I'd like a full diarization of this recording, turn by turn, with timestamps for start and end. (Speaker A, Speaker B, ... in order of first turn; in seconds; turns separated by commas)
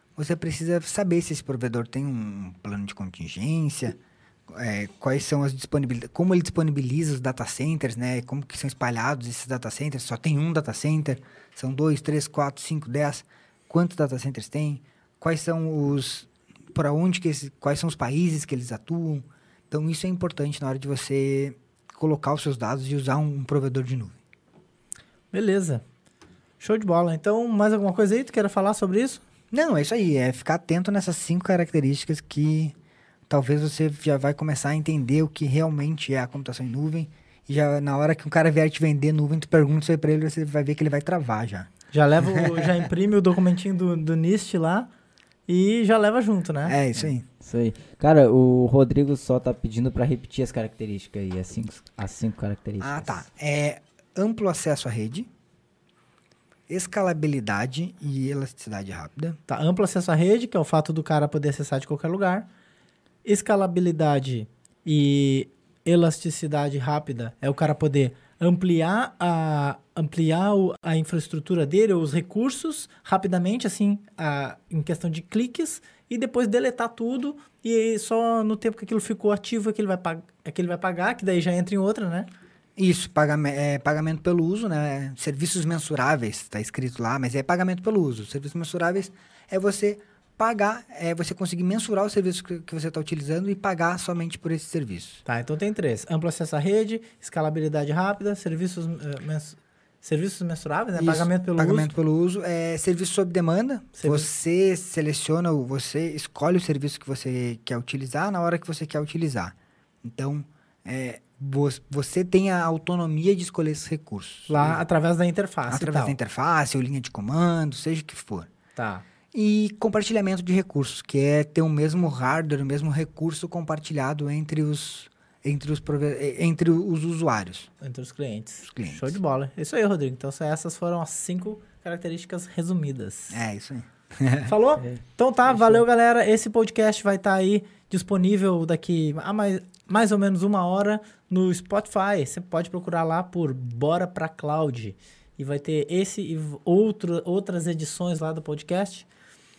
Speaker A: 0.1-24.2, Speaker B: 25.3-25.8, Speaker B: 26.6-29.2, Speaker A: 29.5-32.8, Speaker A: 33.3-41.7, Speaker B: 41.9-44.9, Speaker A: 42.2-42.7, Speaker B: 45.5-46.8, Speaker A: 46.6-47.2, Speaker C: 47.4-53.2, Speaker A: 52.8-55.3, Speaker A: 56.7-59.4, Speaker B: 59.5-62.5, Speaker B: 63.2-82.3, Speaker A: 82.8-95.2, Speaker B: 95.2-101.9, Speaker A: 101.0-114.8, Speaker B: 104.0-104.3, Speaker B: 114.5-116.2, Speaker A: 115.7-118.5, Speaker B: 118.8-119.0, Speaker A: 119.3-127.7, Speaker B: 127.8-133.4, Speaker A: 128.6-129.2, Speaker A: 133.3-134.5, Speaker B: 134.4-149.1, Speaker C: 135.5-135.8